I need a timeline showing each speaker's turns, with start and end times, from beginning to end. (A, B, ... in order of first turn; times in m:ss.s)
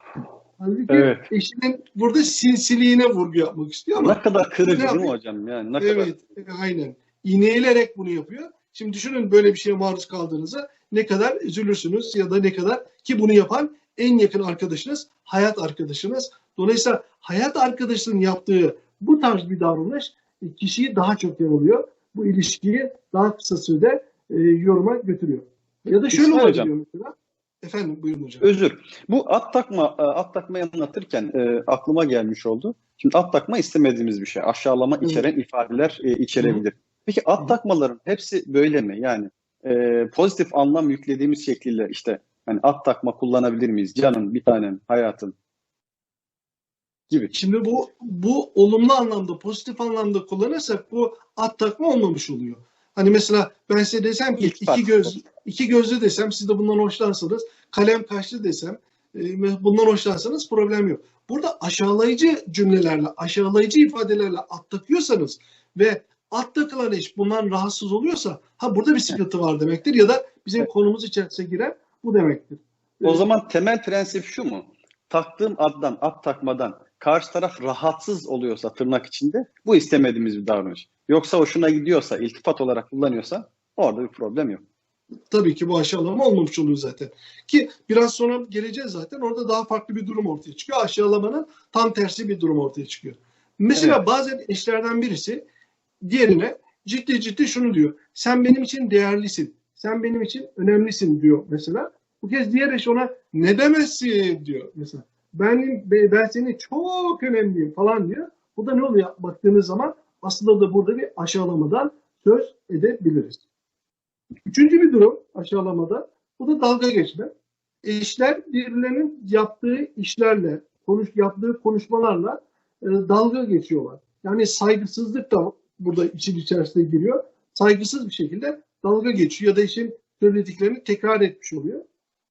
0:00.6-0:05.1 A
0:00.9-0:01.3 B
0:04.0-0:06.1 B
0:05.8-0:28.4 A
0:26.1-0:26.7 B
0:28.4-0:45.4 B
0:47.1-0:47.4 B
0:47.3-1:13.2 A
0:54.4-0:55.2 B
1:13.0-1:24.6 B
1:25.3-1:35.4 A
1:36.0-1:53.4 A
1:54.5-1:57.3 A
1:57.8-2:11.8 A